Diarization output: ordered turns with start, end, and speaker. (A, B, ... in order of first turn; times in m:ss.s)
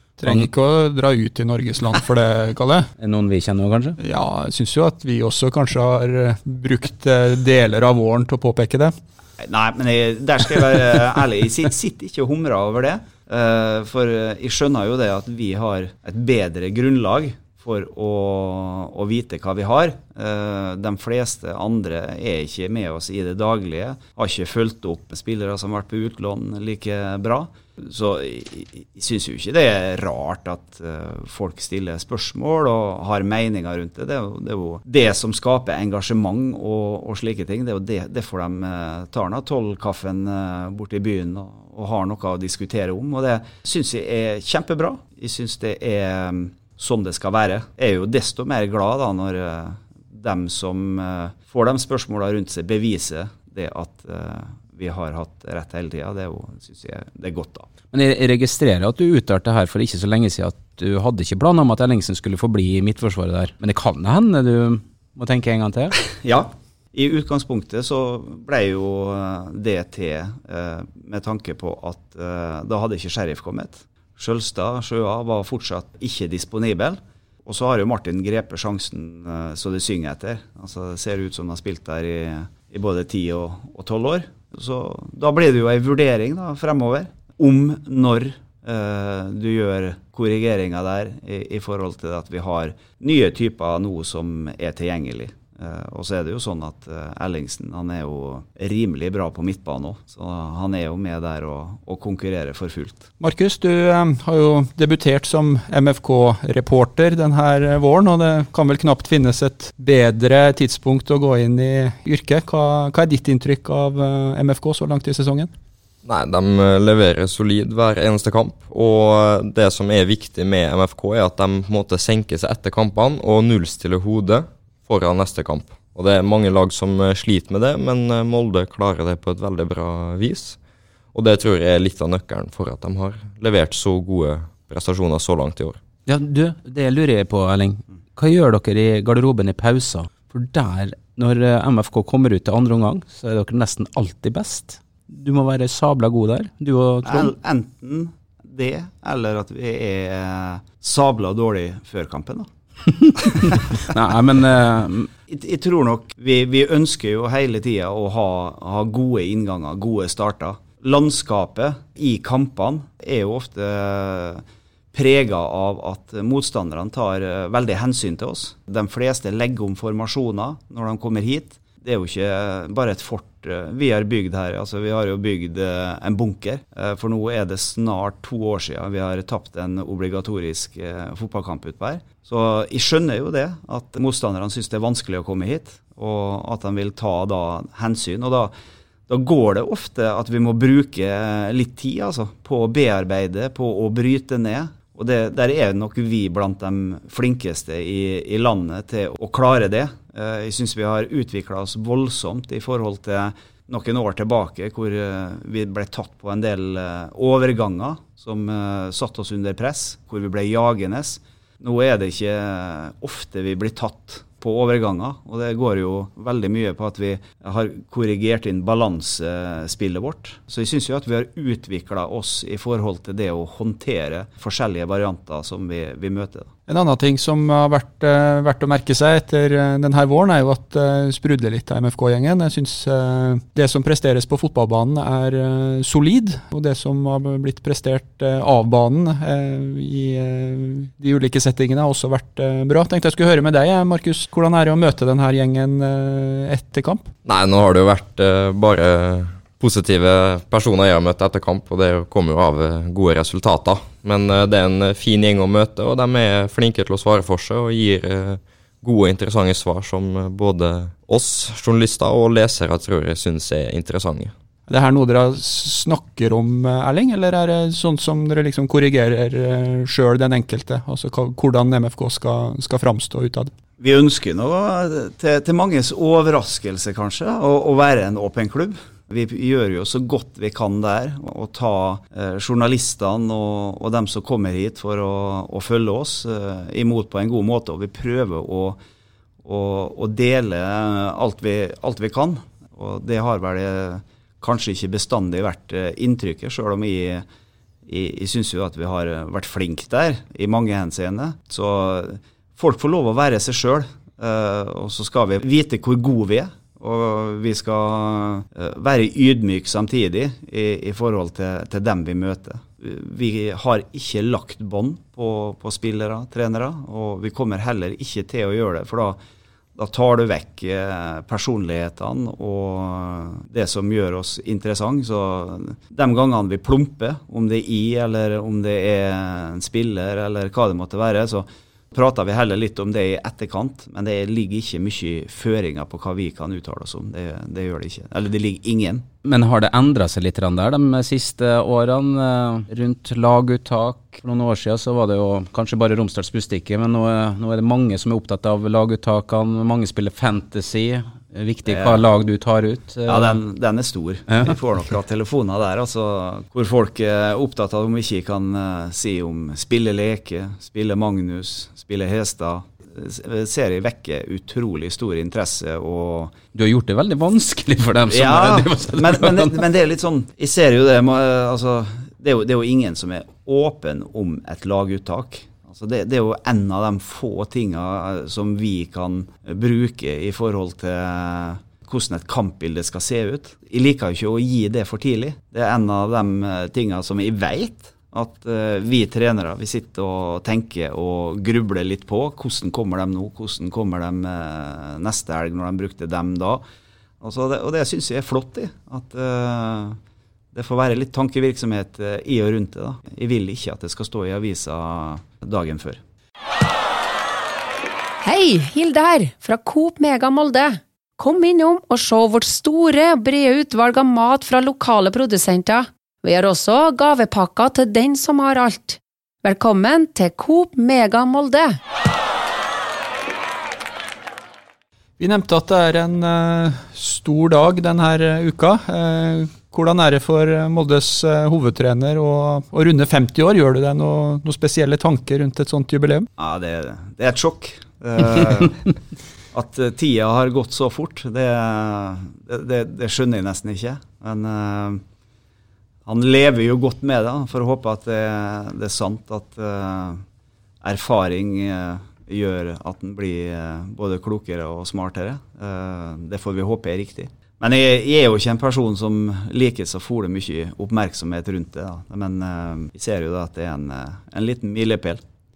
0:00.2-0:02.9 A
0:03.0-0:04.0 B
0:04.0-0:08.9 A
0:09.4-0:57.7 C
0:57.9-1:06.0 B
1:06.2-1:43.1 C
1:43.2-1:55.5 A
1:56.0-2:10.6 D
2:11.1-2:15.8 D
2:16.0-2:27.3 B
2:27.0-2:32.5 C
2:33.0-2:35.1 B
2:33.2-2:33.6 C
2:35.3-3:08.5 C
3:09.1-3:46.5 C
3:46.7-4:07.1 A
4:07.2-4:24.3 D
4:24.7-4:33.5 A
4:33.8-4:48.8 C
4:49.4-4:57.2 C
4:57.8-5:19.2 C
5:19.7-5:39.1 C
5:39.2-5:53.4 B
5:51.6-5:52.1 C
5:53.0-6:06.3 C
5:54.3-5:54.5 B
6:06.5-6:09.6 B
6:08.1-6:36.6 C
6:37.2-6:40.0 C
6:40.5-6:46.0 C
6:48.2-7:01.8 E
7:05.2-7:16.3 A
7:16.4-7:18.8 C
7:19.5-7:25.0 C
7:26.0-7:30.2 C
7:30.8-7:45.2 C